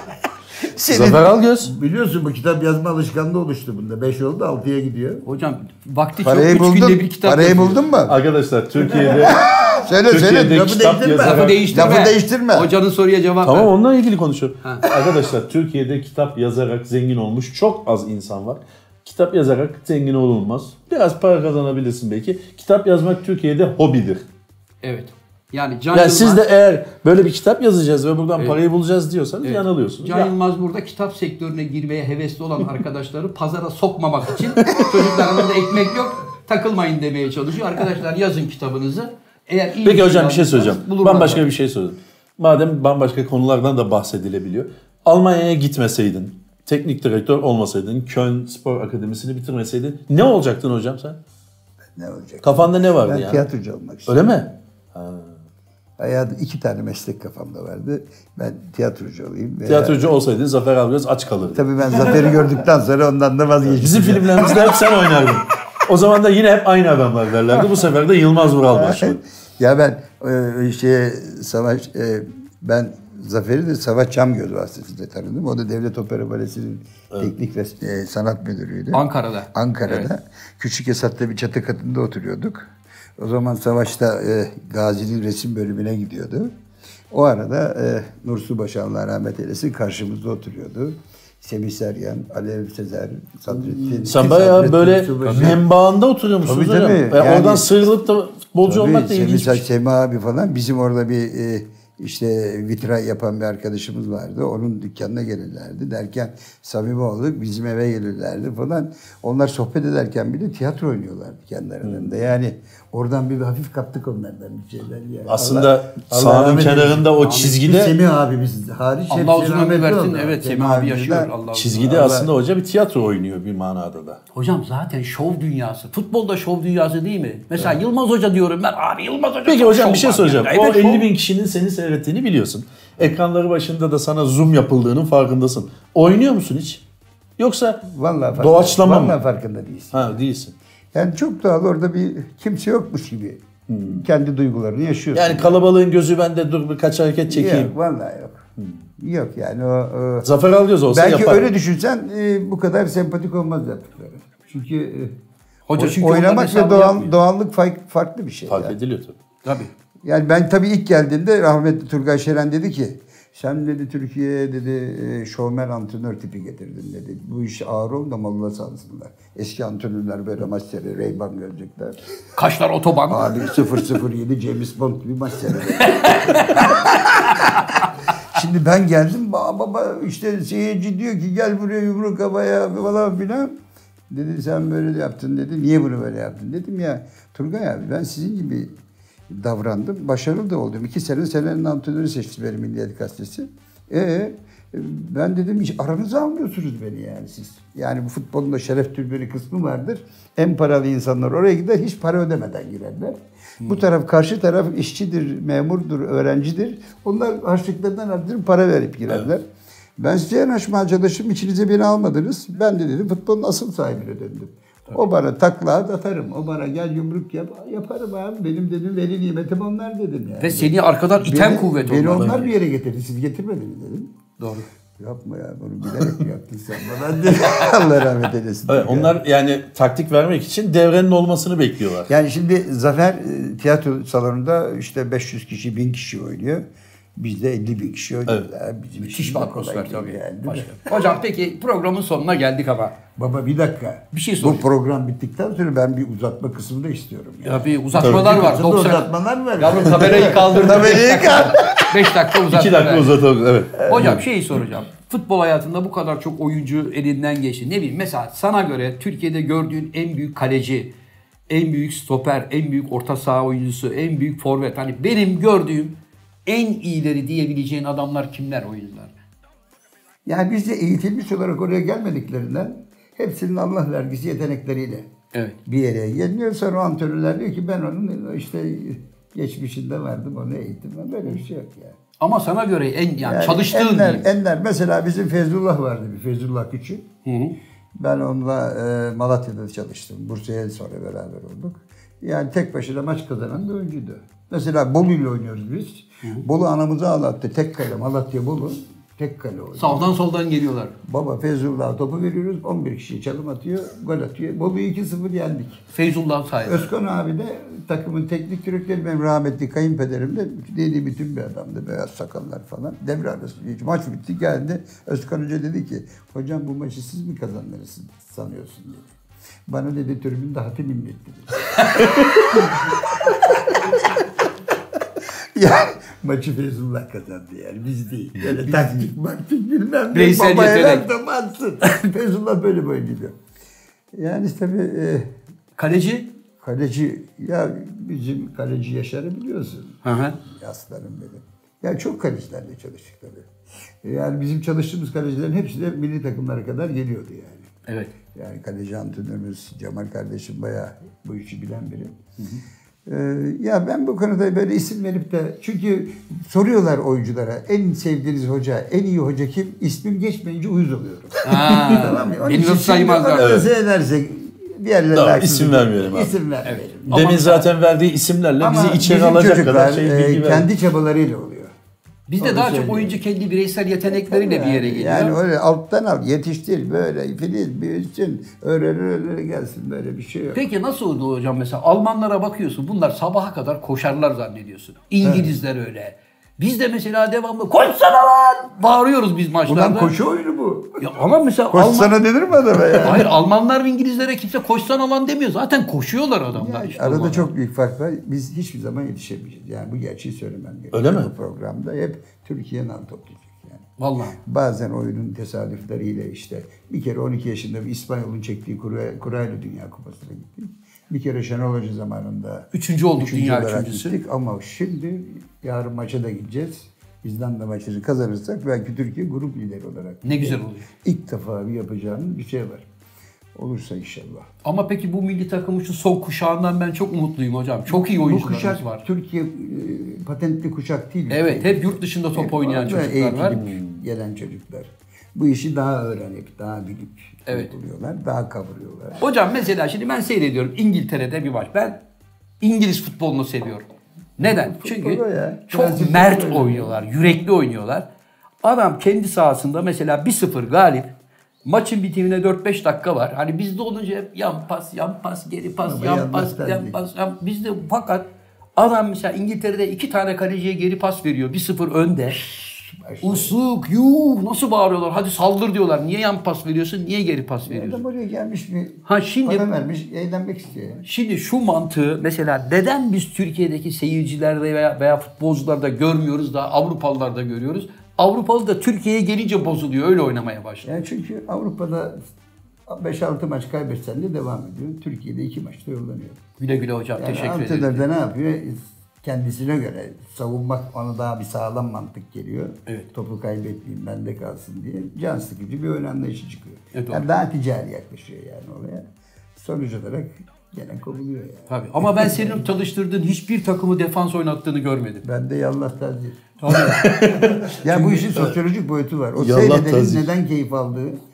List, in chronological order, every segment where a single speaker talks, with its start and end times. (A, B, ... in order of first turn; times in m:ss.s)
0:00.8-0:05.2 A
0:00.9-0:01.7 B
0:05.2-0:07.8 C
0:06.2-0:08.2 A
0:08.0-0:12.0 B
0:09.0-0:12.7 A
0:11.2-0:13.7 C
0:13.4-0:24.2 B
0:24.8-0:26.4 C
0:25.9-0:30.3 B
0:29.4-0:41.4 C
0:34.7-0:35.3 B
0:39.8-0:51.2 B
0:51.9-0:54.4 A
0:52.4-0:53.4 B
0:54.1-0:55.3 B
0:56.0-1:00.1 A
0:59.6-1:02.2 B
1:01.5-1:04.8 A
1:03.7-1:09.2 B
1:08.7-1:26.5 A
1:18.9-1:20.1 C
1:27.1-1:35.6 A
1:33.9-1:39.6 B
1:36.4-1:37.7 A
1:38.6-2:01.3 A
1:51.8-1:52.1 B
1:55.3-1:58.0 B
1:57.2-1:57.5 C
1:59.1-2:02.2 C
2:01.5-2:04.2 B
2:01.9-2:02.2 A
2:04.3-2:11.1 C
2:09.4-2:16.8 B
2:17.4-2:17.8 B
2:17.8-2:20.1 A
2:18.4-2:19.2 B
2:19.9-2:20.5 B
2:20.9-2:25.6 A
2:23.7-2:24.0 B
2:25.1-2:27.7 B
2:27.3-2:28.4 A
2:29.0-2:30.3 A
2:30.2-2:31.5 B
2:30.9-2:35.2 A
2:35.7-2:37.1 C
2:35.8-2:38.8 A
2:38.5-2:39.2 B
2:39.4-2:39.7 C
2:40.0-2:52.0 A
2:52.4-2:53.5 C
2:53.1-2:57.6 A
2:55.8-2:56.8 C
2:58.3-3:03.6 A
3:04.1-3:08.7 A
3:09.3-3:29.4 A
3:30.0-3:44.1 A
3:40.4-3:42.5 C
3:44.4-3:44.7 C
3:45.0-3:49.2 A
3:48.7-3:52.1 B
3:52.1-3:56.6 A
3:57.2-4:01.0 A
3:59.0-4:03.0 C
4:03.1-4:11.9 A
4:04.1-4:04.6 C
4:07.4-4:13.1 C
4:12.5-4:14.2 B
4:13.8-4:20.9 C
4:21.5-4:29.1 C
4:30.2-4:35.1 A
4:35.6-4:42.0 A
4:42.2-4:44.3 C
4:43.2-4:47.1 A
4:47.2-4:47.6 C
4:48.0-5:00.2 A
4:59.8-5:00.9 C
5:01.0-5:05.8 A
5:05.9-5:06.9 C
5:06.6-5:19.1 A
5:19.7-5:24.2 A
5:25.5-5:33.4 A
5:30.1-5:31.0 C
5:34.1-5:35.3 A
5:35.8-5:36.3 C
5:36.6-5:43.5 A
5:40.0-5:40.4 C
5:44.0-5:47.7 A
5:48.3-5:52.2 A
5:53.0-6:07.2 A
6:01.4-6:03.5 C
6:03.4-6:03.7 B
6:05.1-6:06.3 B
6:06.6-6:07.7 C
6:07.1-6:10.7 B
6:08.6-6:11.7 A
6:12.3-6:15.3 C
6:12.4-6:13.2 A
6:14.1-6:20.6 A
6:20.5-6:30.1 C
6:25.2-6:25.5 A
6:29.7-6:31.0 A
6:31.0-6:32.2 C
6:31.7-6:33.3 A
6:32.9-6:37.5 C
6:36.5-6:43.8 A
6:40.9-6:41.3 B
6:44.0-6:44.4 C
6:44.4-7:02.9 A
6:52.7-6:54.2 C
7:00.2-7:00.8 C
7:03.5-7:04.5 A
7:04.6-7:09.0 C
7:07.9-7:19.2 A
7:11.3-7:13.6 C
7:13.5-7:13.9 B
7:19.2-7:22.0 C
7:22.6-7:23.8 C
7:24.4-7:28.0 C
7:24.4-7:27.0 A
7:28.6-7:31.1 C
7:31.6-7:38.2 C
7:35.8-7:37.0 A
7:38.8-7:42.4 C
7:42.4-7:43.5 A
7:43.2-7:48.0 C
7:47.7-7:51.0 A
7:49.0-7:49.6 C
7:51.0-8:00.9 C
8:00.8-8:02.2 A
8:02.9-8:06.4 A
8:06.6-8:08.0 C
8:07.2-8:22.6 A
8:16.9-8:17.2 C
8:21.7-8:25.2 C
8:25.2-8:26.4 A
8:26.6-8:27.1 C
8:26.7-8:28.5 B
8:27.6-8:31.2 A
8:29.4-8:30.3 B